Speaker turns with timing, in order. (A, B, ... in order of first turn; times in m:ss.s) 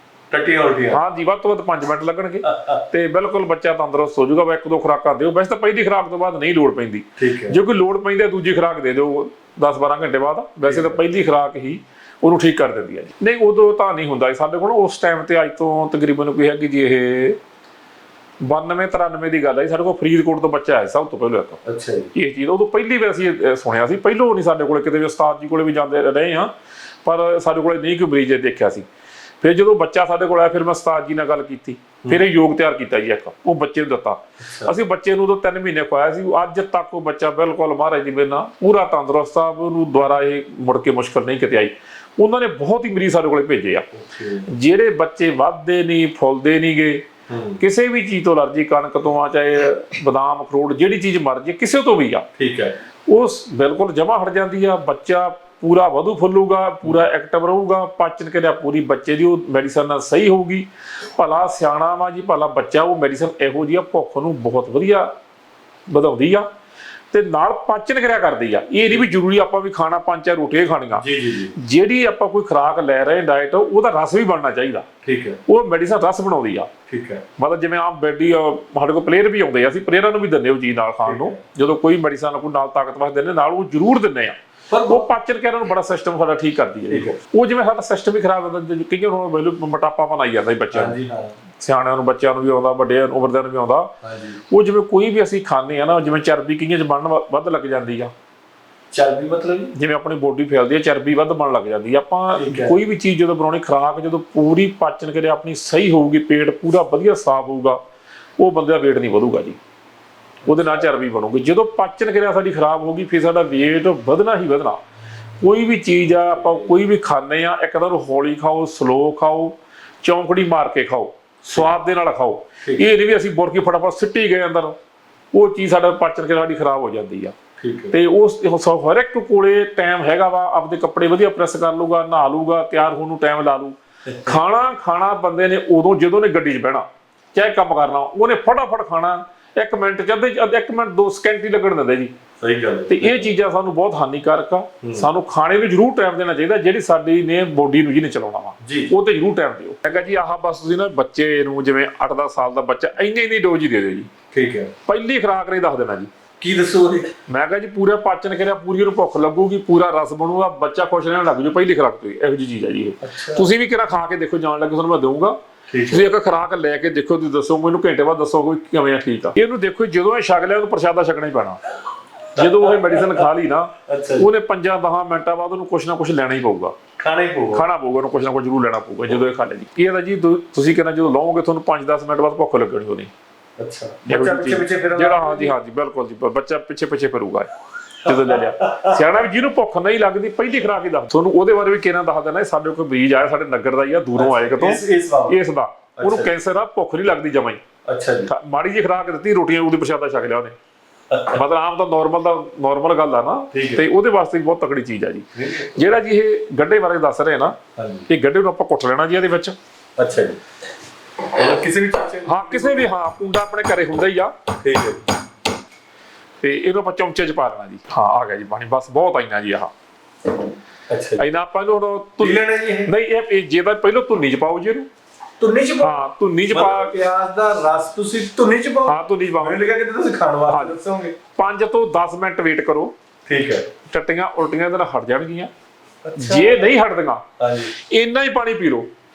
0:00.3-0:01.0 A
0:00.9-0:17.4 B
0:02.5-0:02.8 A
0:07.2-0:07.6 A
0:10.6-0:11.0 A
0:18.4-0:21.6 B
0:21.6-0:22.1 A
0:22.1-0:26.5 B
0:27.0-0:28.8 B
0:29.4-0:43.9 B
0:34.4-0:34.7 A
0:43.9-0:44.5 A
0:44.5-0:47.1 B
0:47.3-0:47.6 A
0:47.6-0:52.3 B
0:52.4-0:52.8 A
0:53.1-1:05.1 B
1:05.9-1:06.5 B
1:07.1-1:14.9 B
1:11.0-1:11.5 A
1:15.0-1:15.4 A
1:15.4-1:16.7 B
1:16.9-1:17.2 A
1:17.4-1:31.0 B
1:21.0-1:21.4 A
1:24.7-1:25.1 A
1:26.9-1:27.1 A
1:30.7-1:31.4 A
1:31.6-1:33.9 B
1:34.0-1:34.4 A
1:34.5-1:38.1 B
1:38.9-1:39.7 A
1:39.7-1:47.8 B
1:42.4-1:42.8 A
1:48.4-1:49.6 B
1:50.4-1:50.9 A
1:50.4-1:54.8 B
1:55.4-2:04.8 B
1:56.3-1:56.7 A
2:01.4-2:01.7 A
2:05.3-2:07.3 B
2:07.6-2:07.9 A
2:07.9-2:22.1 B
2:22.4-2:23.3 A
2:22.9-2:34.1 B
2:24.8-2:25.1 A
2:28.6-2:28.9 A
2:34.3-2:34.7 A
2:34.8-2:36.1 B
2:36.4-2:37.1 A
2:37.3-2:51.6 B
2:43.0-2:43.5 A
2:45.7-2:46.1 A
2:52.3-2:56.8 B
2:52.4-2:53.3 A
2:53.8-2:54.3 A
2:57.0-2:57.6 A
2:57.5-3:03.1 B
3:03.6-3:05.5 A
3:04.0-3:07.5 B
3:08.0-3:17.6 B
3:08.0-3:09.0 A
3:14.1-3:15.4 A
3:16.0-3:16.3 A
3:17.8-3:18.3 A
3:18.3-3:20.5 B
3:21.1-3:21.4 A
3:21.3-3:29.6 B
3:23.5-3:23.9 A
3:25.3-3:25.8 A
3:27.8-3:28.1 A
3:30.0-3:30.4 A
3:31.2-3:32.9 A
3:32.2-3:34.3 B
3:34.6-3:35.0 A
3:36.4-3:39.7 B
3:40.9-3:41.2 A
3:41.2-3:44.9 B
3:42.2-3:42.9 A
3:45.4-3:51.2 A
3:45.8-3:46.9 B
3:48.8-3:49.6 B
3:50.5-3:50.8 B
3:51.3-3:52.9 B
3:53.2-3:53.7 A
3:53.9-3:55.5 B
3:56.0-3:56.7 A
3:56.2-3:58.9 B
3:57.4-3:57.7 A